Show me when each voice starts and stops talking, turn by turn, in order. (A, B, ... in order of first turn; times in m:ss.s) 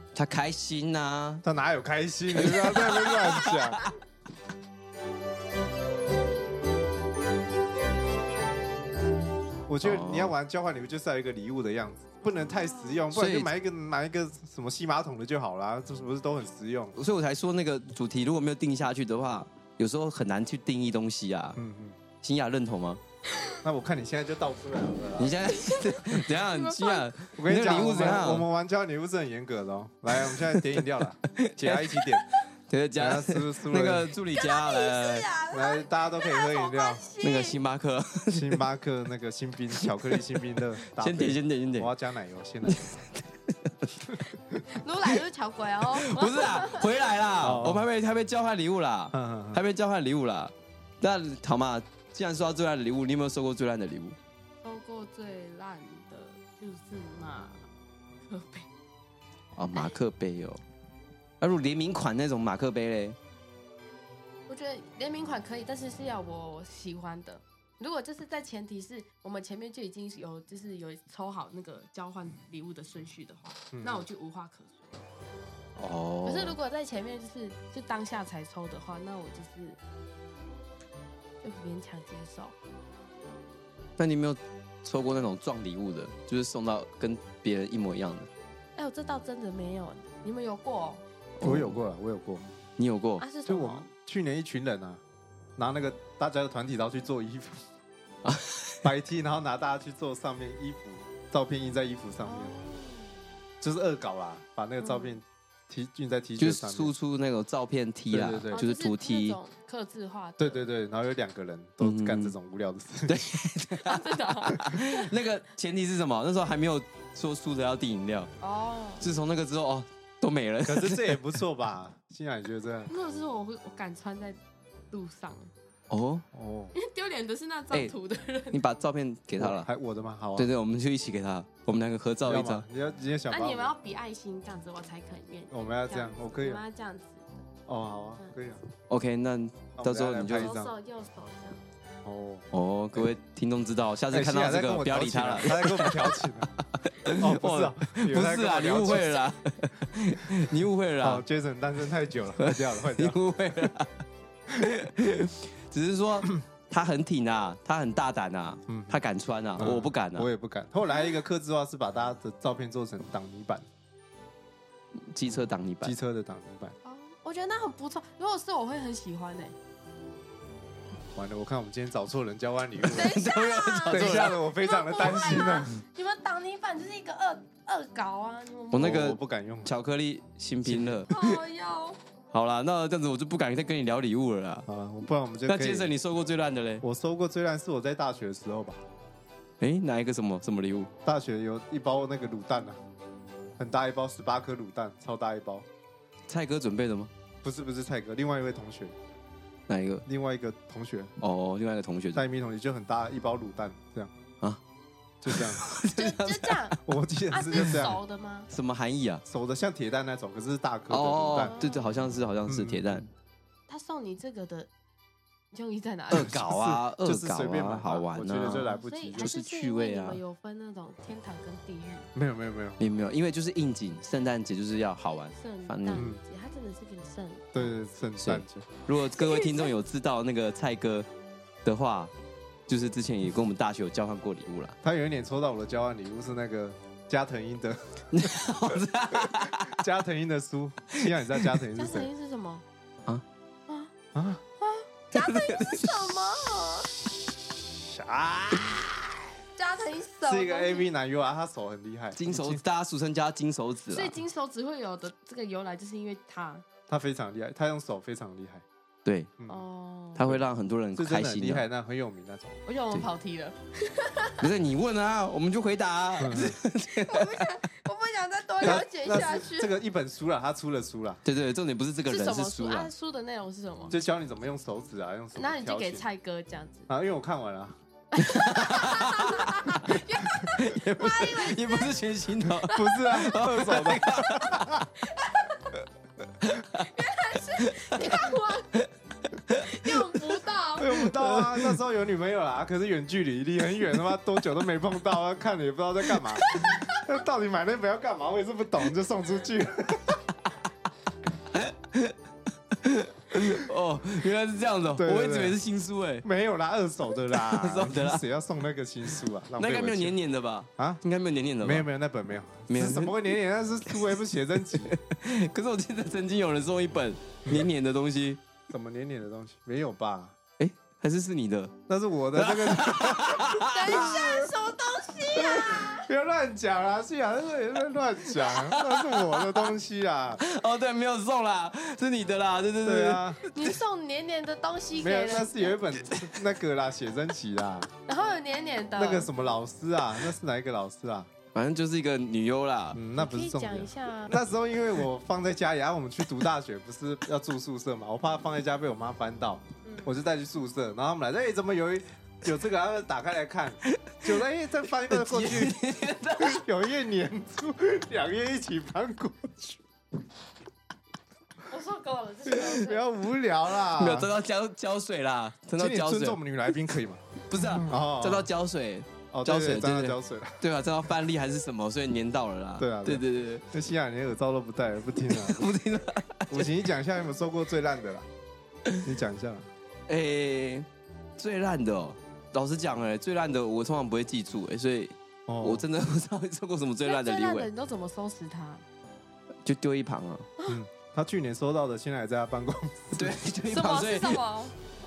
0:00.1-0:01.4 A
0:01.4-0:03.8 B
0:02.3-0:03.8 A
0:09.7-0:17.0 B
0:09.8-0:10.3 A
0:12.5-0:13.0 C
0:13.1-0:13.5 A
0:17.0-0:21.6 A
0:21.6-0:22.0 B
0:22.2-0:23.0 A
0:23.6-0:25.4 B
0:25.2-0:28.4 A
0:25.5-0:27.1 C
0:27.3-0:32.3 B
0:30.2-0:30.6 A
0:31.4-0:35.3 A
0:33.0-0:34.1 B
0:34.3-0:37.6 C
0:35.5-0:37.0 B
0:37.2-0:38.6 A
0:38.3-0:43.0 B
0:39.8-0:41.9 A
0:42.6-0:44.1 A
0:44.1-0:44.6 B
0:44.7-0:47.1 C
0:45.9-0:54.2 A
0:47.4-0:47.8 B
0:49.1-0:49.6 B
0:54.6-0:57.7 C
0:58.3-0:58.7 C
0:59.6-1:00.6 A
1:01.4-1:03.2 A
1:04.5-1:15.0 C
1:13.7-1:14.0 B
1:15.8-1:16.6 A
1:16.2-1:19.8 C
1:21.4-1:22.5 C
1:24.0-1:28.3 A
1:28.8-1:31.0 C
1:31.4-1:31.8 A
1:31.4-1:32.4 B
1:32.8-1:33.2 A
1:33.2-1:33.9 C
1:33.4-1:35.0 B
1:35.6-1:37.6 B
1:38.2-1:38.8 A
1:38.8-1:42.5 B
1:42.2-1:43.2 C
1:43.6-1:46.9 B
1:44.8-1:45.2 C
1:46.4-1:49.4 A
1:48.1-1:48.6 B
1:48.5-1:50.6 C
1:50.4-1:53.2 B
1:51.8-1:52.4 A
1:53.1-1:58.3 A
1:53.8-1:55.0 C
1:58.4-1:59.1 C
1:59.0-2:01.2 A
2:00.6-2:02.9 B
2:02.9-2:04.4 C
2:04.9-2:05.5 C
2:05.9-2:06.2 A
2:06.3-2:06.7 B
2:06.7-2:08.6 C
2:08.5-2:09.7 A
2:09.4-2:10.5 B
2:10.4-2:12.6 A
2:12.2-2:13.7 B
2:13.3-2:17.4 C
2:15.5-2:16.6 B
2:17.7-2:18.6 B
2:18.9-2:20.5 A
2:19.8-2:20.7 B
2:20.3-2:21.6 C
2:22.0-2:22.5 B
2:22.5-2:26.2 A
2:24.1-2:26.5 B
2:26.8-2:31.2 A
2:27.1-2:29.1 B
2:28.9-2:29.3 C
2:31.0-2:33.2 B
2:32.4-2:33.9 A
2:34.6-2:40.3 A
2:38.7-2:39.0 B
2:39.6-2:43.7 B
2:45.0-2:46.0 A
2:45.3-2:46.8 B
2:46.8-2:49.5 C
2:51.1-2:53.2 B
2:52.8-2:54.4 A
2:52.9-2:59.1 C
2:53.9-2:55.8 B
2:58.7-3:01.4 A
2:58.8-2:59.7 B
3:00.6-3:01.1 B
3:01.1-3:02.0 C
3:02.3-3:04.6 A
3:04.7-3:05.9 B
3:05.5-3:06.8 A
3:06.8-3:08.8 B
3:09.6-3:10.9 A
3:11.0-3:12.8 B
3:13.6-3:15.7 B
3:16.3-3:17.1 A
3:17.4-3:19.0 B
3:19.7-3:20.0 A
3:20.0-3:21.1 B
3:21.2-3:22.2 A
3:22.1-3:24.1 B
3:25.2-3:25.6 B
3:25.3-3:26.7 A
3:25.9-3:26.8 C
3:26.8-3:28.0 B
3:27.3-3:28.5 C
3:28.5-3:29.2 A
3:29.2-3:31.6 B
3:30.9-3:33.1 A
3:31.4-3:31.9 C
3:32.4-3:33.1 B
3:33.7-3:34.7 C
3:35.5-3:36.4 C
3:36.1-3:40.2 A
3:36.1-3:39.3 B
3:38.6-3:42.1 C
3:42.1-3:42.9 B
3:42.8-3:46.1 A
3:45.4-3:47.5 C
3:46.0-3:46.2 B
3:47.5-3:48.7 B
3:48.2-3:51.1 A
3:49.1-3:49.7 C
3:51.6-3:52.1 A
3:52.7-3:54.8 A
3:54.8-4:02.1 B
3:58.1-3:59.8 A
4:01.8-4:02.6 C
4:04.1-4:04.4 B
4:04.6-4:06.9 C
4:05.1-4:06.0 A
4:07.7-4:09.3 B
4:09.6-4:10.9 C
4:10.2-4:12.6 B
4:12.2-4:14.1 A
4:13.9-4:16.6 C
4:16.9-4:18.6 B
4:19.0-4:19.3 A
4:19.5-4:20.2 C
4:20.2-4:21.6 A
4:20.2-4:22.6 B
4:22.6-4:24.5 C
4:24.4-4:27.5 A
4:26.2-4:26.6 B
4:26.8-4:29.7 C
4:28.6-4:31.2 B
4:31.2-4:32.9 A
4:32.0-4:33.9 C
4:33.9-4:36.0 B
4:35.4-4:36.9 C
4:36.9-4:37.8 B
4:38.1-4:43.9 C
4:38.2-4:44.6 A
4:42.7-4:44.9 B
4:45.0-4:45.8 C
4:46.4-4:46.8 A
4:46.7-4:48.7 C
4:47.6-4:50.0 A
4:49.5-4:51.1 C
4:50.8-5:00.4 B
4:50.9-4:51.8 A
4:56.2-4:56.6 A
4:56.5-4:57.0 C
5:01.5-5:02.2 A
5:02.7-5:06.2 A
5:05.0-5:05.6 B
5:06.2-5:10.2 B
5:07.3-5:08.2 A
5:09.6-5:11.9 A
5:11.6-5:14.9 B
5:12.7-5:13.3 A
5:14.7-5:18.4 A
5:18.7-5:20.4 B
5:20.6-5:21.7 A
5:21.9-5:24.5 B
5:22.3-5:24.2 A
5:23.4-5:26.1 C
5:25.5-5:30.4 B
5:28.4-5:29.7 A
5:30.4-5:33.7 A
5:32.8-5:33.4 B
5:33.5-5:35.8 C
5:35.0-5:37.9 B
5:36.0-5:36.4 A
5:38.0-5:39.3 C
5:39.0-5:41.3 B
5:41.5-5:43.0 A
5:42.9-5:55.8 B
5:43.2-5:44.4 C
5:49.8-5:50.1 C
5:53.9-5:54.3 A
5:55.1-5:56.6 A
5:56.4-5:59.8 B
6:01.6-6:03.0 C
6:02.7-6:04.3 B
6:03.9-6:06.4 A
6:05.8-6:08.5 B
6:07.5-6:13.6 A
6:09.3-6:10.6 B
6:12.8-6:15.6 B
6:15.2-6:16.7 A
6:16.5-6:18.3 B
6:19.0-6:19.7 B
6:20.1-6:20.9 A
6:21.4-6:27.7 A
6:25.5-6:25.8 B
6:27.0-6:28.8 C
6:29.6-6:30.5 A
6:30.7-6:33.4 B
6:33.2-6:34.4 A
6:33.7-6:34.7 C